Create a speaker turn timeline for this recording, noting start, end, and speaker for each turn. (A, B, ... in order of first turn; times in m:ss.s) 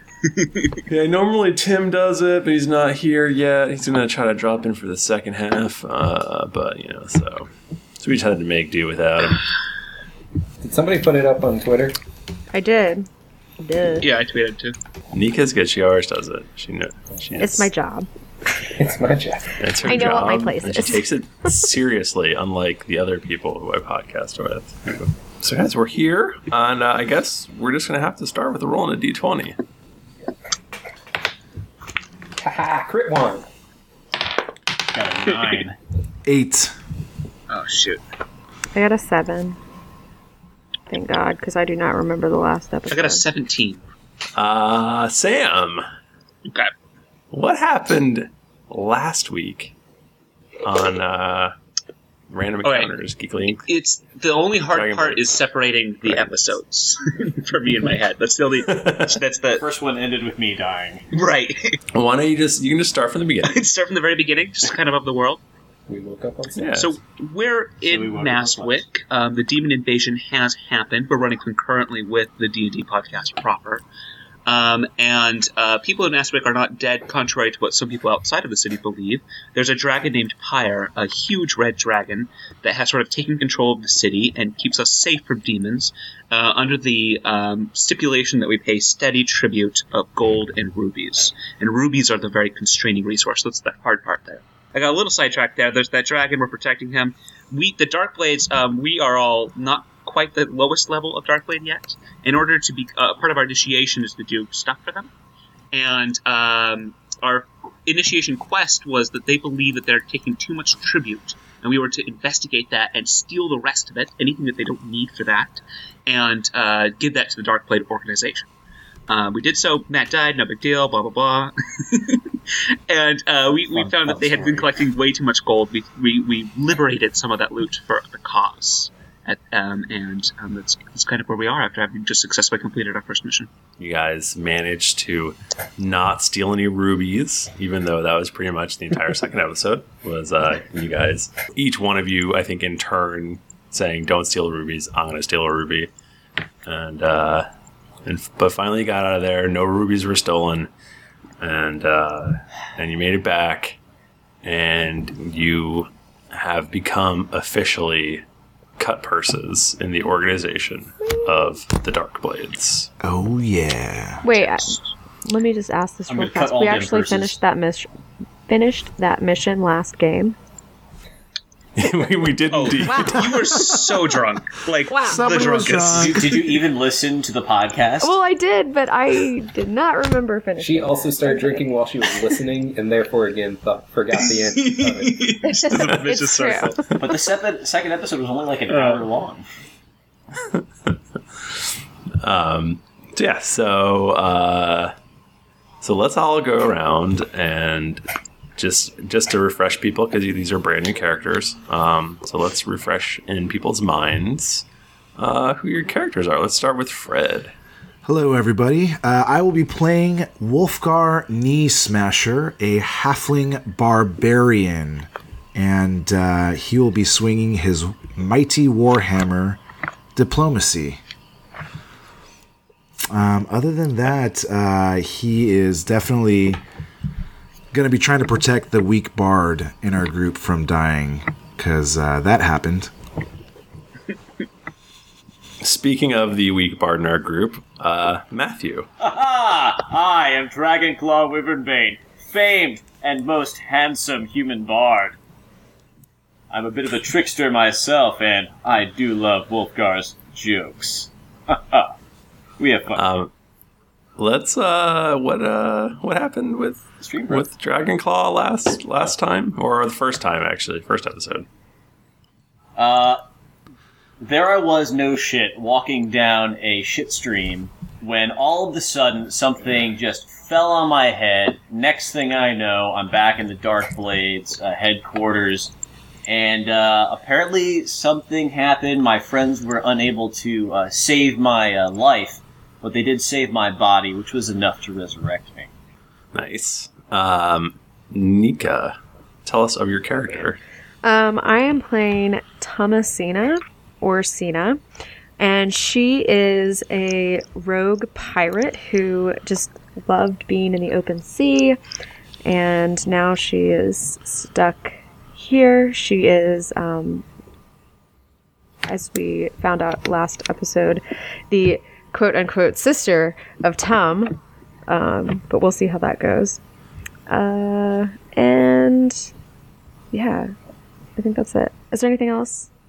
0:00.2-0:00.8 A
0:00.9-0:09.4 B
0:10.6-0:12.0 C
0:12.5-0:13.1 D
0:13.6-0:14.1 D
0:14.0-0:14.8 A
0:15.1-0:17.7 B
0:17.4-0:18.1 D
0:18.7-0:19.6 C
0:19.6-0:29.5 B
0:19.8-0:21.0 D
0:32.4-0:33.4 C
0:34.9-0:35.8 E
0:36.2-0:36.7 F
0:37.5-0:38.0 A
0:38.7-0:39.6 D
0:40.9-0:43.2 D
0:42.9-0:43.8 A
0:44.4-0:45.8 B
0:46.4-0:46.7 A
0:47.3-0:49.7 B
0:50.6-0:51.5 B
0:52.3-0:53.6 B
0:52.6-0:52.9 A
0:53.5-0:59.6 A
0:54.7-0:55.3 B
0:56.0-0:56.6 B
0:58.6-0:59.2 B
0:59.5-1:01.0 E
1:01.1-1:01.8 A
1:01.9-1:03.6 B
1:03.4-1:05.4 A
1:05.9-1:06.7 C
1:06.5-1:06.9 B
1:06.7-1:13.8 A
1:07.8-1:08.8 E
1:14.4-1:45.1 A
1:45.7-1:58.5 A
1:59.1-2:02.3 A
2:02.9-2:13.5 A
2:03.7-2:04.7 E
2:13.8-2:25.9 B
2:26.6-2:27.4 B
2:28.0-2:30.7 B
2:31.4-2:33.8 B
2:34.4-2:38.2 B
2:38.8-2:42.9 B
2:43.0-2:44.2 F
2:44.2-2:47.9 D
2:44.3-2:44.8 A
2:46.1-2:47.4 E
2:48.5-2:50.4 D
2:51.7-2:53.7 B
2:52.5-2:56.3 A
2:52.8-2:53.8 D
2:54.9-2:55.3 D
2:55.1-2:56.6 F
2:55.8-2:58.1 E
2:58.0-3:01.7 D
3:00.6-3:05.3 C
3:04.3-3:07.0 A
3:05.4-3:06.8 D
3:07.0-3:09.4 E
3:08.7-3:09.0 A
3:10.4-3:10.9 B
3:12.2-3:14.9 B
3:15.8-3:18.0 B
3:18.6-3:24.6 B
3:25.2-3:27.5 B
3:28.0-3:39.6 F
3:40.1-3:41.0 F
3:43.1-3:46.6 F
3:47.7-3:52.9 F
3:55.6-3:58.9 B
3:59.0-4:05.2 E
4:06.5-4:11.9 E
4:12.6-4:13.0 E
4:13.0-4:13.3 B
4:14.2-4:21.5 B
4:17.0-4:17.5 E
4:22.8-4:23.2 E
4:24.2-4:35.7 E
4:36.3-4:45.7 E
4:46.3-4:50.6 B
4:51.0-4:54.8 D
4:55.4-5:01.8 D
5:02.4-5:07.2 D
5:08.8-5:16.6 D
5:17.3-5:19.3 D
5:20.1-5:20.5 D
5:21.2-5:22.7 D